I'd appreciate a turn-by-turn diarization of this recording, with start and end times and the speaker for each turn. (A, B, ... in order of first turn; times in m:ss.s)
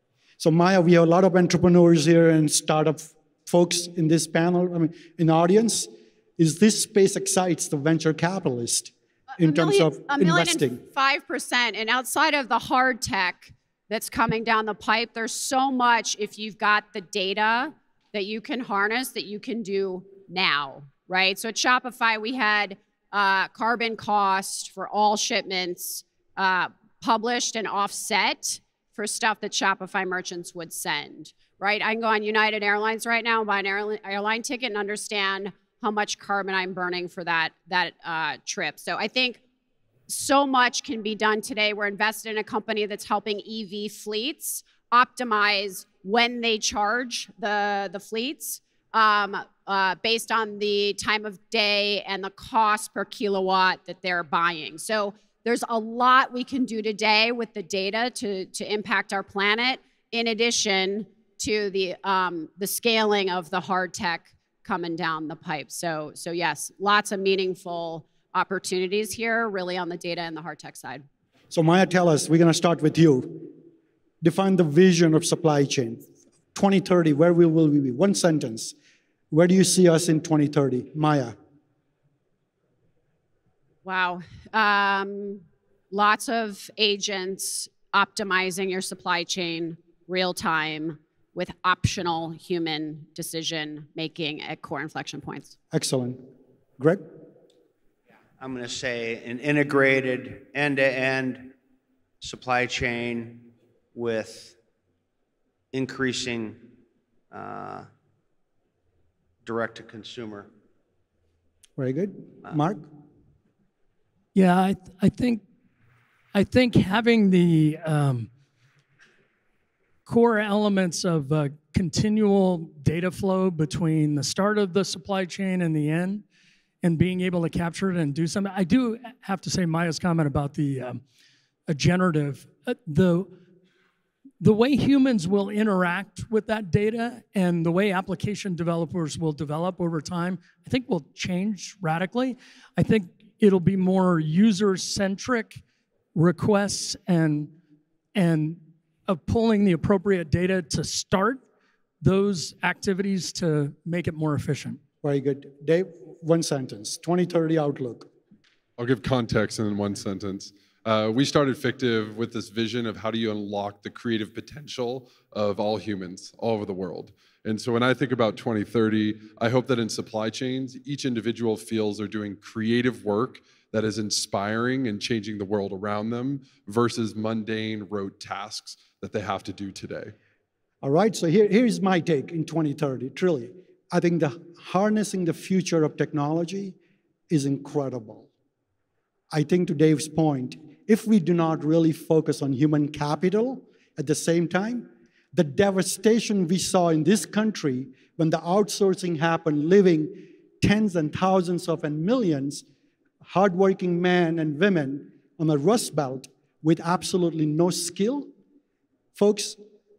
0:00.4-0:10.8 A
0:09.4-0:39.4 B
0:40.1-1:11.0 B
1:11.5-1:13.5 A
1:14.2-1:18.7 A
1:19.3-1:21.4 A
1:23.8-1:35.5 B
1:35.7-1:36.2 A
1:36.8-1:37.0 A
1:38.4-1:41.5 C
1:42.2-1:44.6 C
1:45.7-1:46.7 C
1:47.3-1:47.9 C
1:49.4-1:50.5 C
1:51.8-1:52.8 A
1:54.3-1:55.4 D
1:56.3-1:58.3 D
2:00.0-2:06.2 D
2:06.8-2:11.0 D
2:11.7-2:13.3 D
2:14.4-2:25.6 D
2:26.1-2:27.5 D
2:28.1-2:31.4 D
2:32.0-2:34.8 D
2:35.0-2:38.1 A
2:38.8-3:00.1 E
3:00.8-3:06.8 A
3:07.3-3:08.3 A
3:09.3-3:22.6 A
3:23.2-3:28.3 A
3:29.1-3:29.6 A